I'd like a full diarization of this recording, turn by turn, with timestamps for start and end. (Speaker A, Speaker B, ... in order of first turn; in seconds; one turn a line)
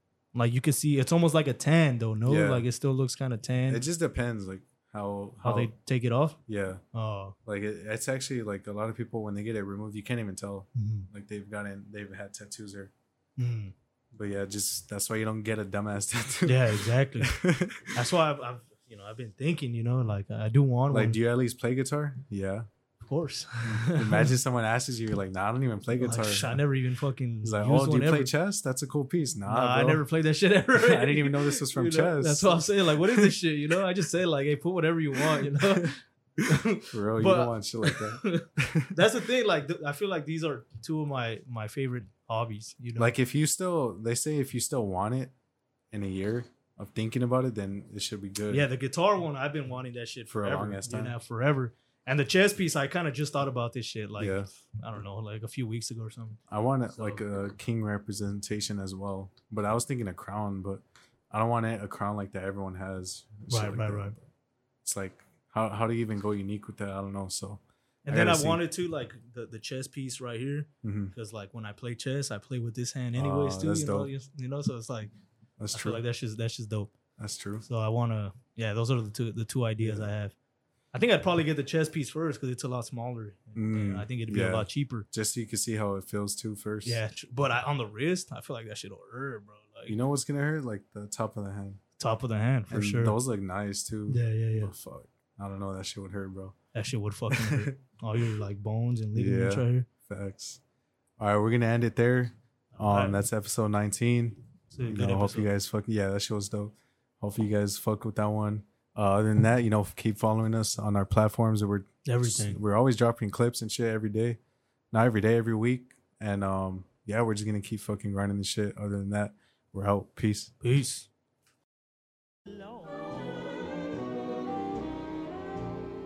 Speaker A: 0.3-3.9
Speaker B: 2.3-2.6
Speaker B: 3.7-5.7
Speaker A: 5.4-6.4
Speaker B: 6.5-6.8
Speaker A: 6.9-7.3
Speaker B: 7.5-12.9
Speaker A: 10.8-11.1
Speaker A: 13.4-13.7
Speaker B: 14.1-18.0
Speaker A: 16.4-17.3
Speaker A: 17.9-21.2
Speaker B: 20.9-22.7
Speaker A: 23.0-24.3
Speaker B: 23.7-26.6
Speaker A: 26.0-28.3
Speaker B: 27.4-30.0
Speaker A: 29.5-43.1
Speaker B: 30.7-33.4
Speaker B: 35.3-35.9
Speaker B: 36.9-38.9
Speaker B: 43.0-45.3
Speaker B: 45.9-48.7
Speaker A: 48.5-56.4
Speaker B: 50.3-51.2
Speaker B: 54.2-54.5
Speaker B: 56.5-64.2
Speaker A: 56.9-57.2
Speaker A: 63.5-64.2
Speaker B: 64.8-68.6
Speaker A: 68.0-75.1
Speaker B: 70.8-71.1
Speaker B: 73.1-74.1
Speaker B: 75.6-76.0
Speaker A: 75.7-76.9
Speaker B: 77.2-77.6
Speaker A: 77.6-80.3
Speaker B: 79.8-80.1
Speaker A: 80.9-85.1
Speaker B: 83.5-87.0
Speaker A: 86.8-90.0
Speaker B: 89.9-91.8
Speaker A: 92.0-93.2
Speaker B: 92.7-96.5
Speaker A: 94.1-94.7
Speaker A: 96.7-99.9
Speaker B: 97.3-97.8
Speaker B: 99.2-100.6
Speaker B: 101.2-114.4
Speaker A: 102.8-103.2
Speaker A: 104.7-105.5
Speaker A: 112.1-112.6
Speaker B: 114.9-120.5
Speaker A: 120.6-121.1
Speaker C: 122.5-124.9